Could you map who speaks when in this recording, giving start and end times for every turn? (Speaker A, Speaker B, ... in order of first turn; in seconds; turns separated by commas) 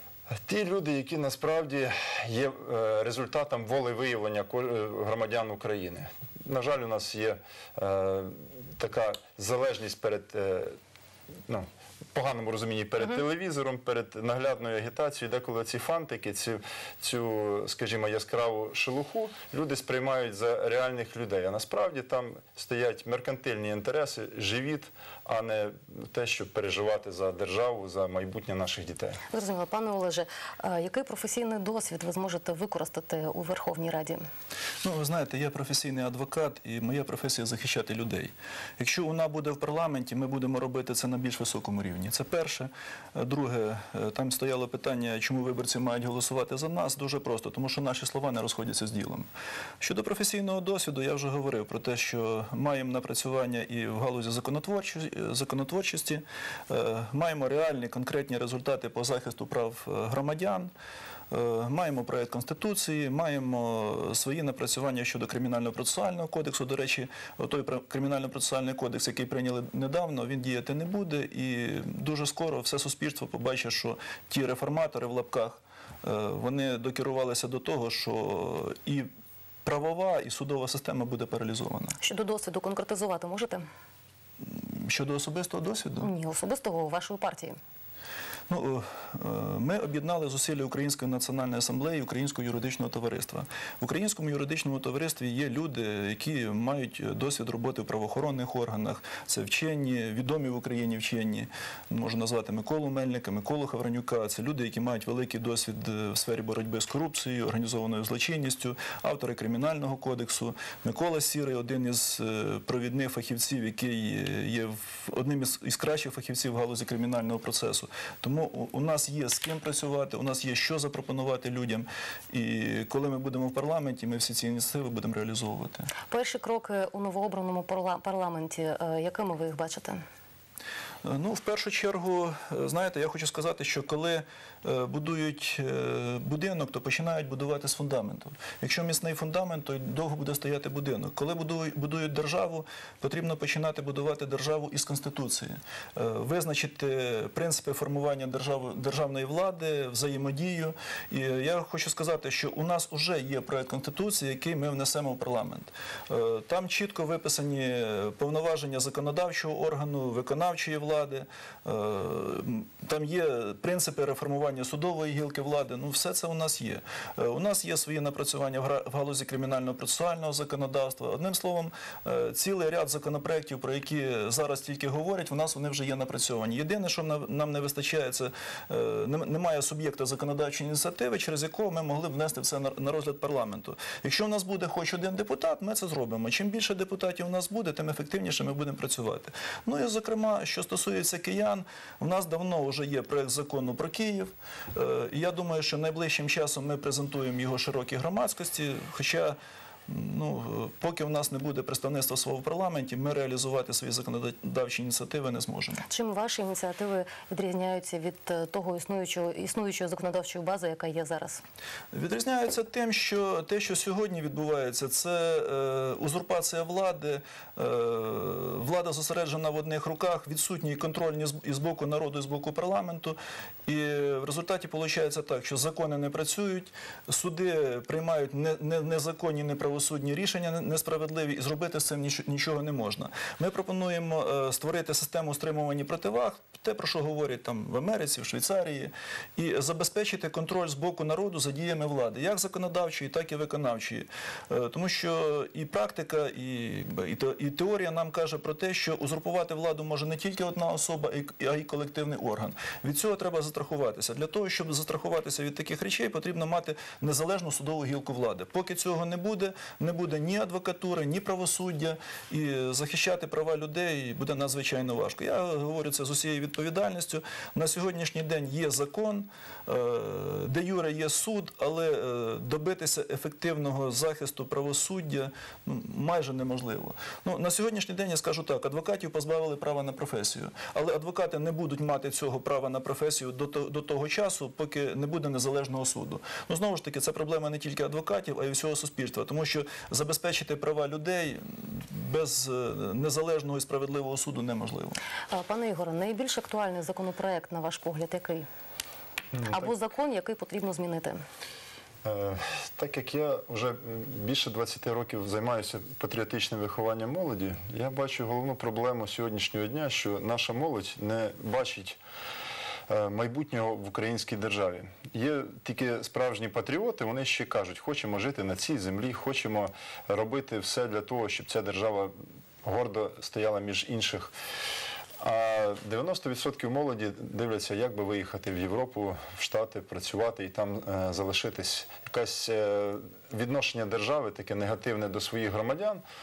Speaker A: 0.4-10.8, Speaker A: 11.5-29.2, Speaker B: 29.3-34.2, Speaker C: 34.8-49.3, Speaker C: 49.8-60.7, Speaker C: 61.3-79.1, Speaker C: 79.6-82.0, Speaker B: 82.0-83.6, Speaker C: 84.4-86.1, Speaker B: 86.0-87.5, Speaker C: 88.5-125.9, Speaker B: 126.1-130.0, Speaker C: 131.0-199.4, Speaker C: 199.9-205.8, Speaker B: 205.8-211.4, Speaker C: 211.9-295.0, Speaker B: 295.3-298.4, Speaker A: 299.3-299.7, Speaker B: 299.4-301.2, Speaker A: 302.0-312.0, Speaker A: 312.9-324.3, Speaker A: 325.2-336.0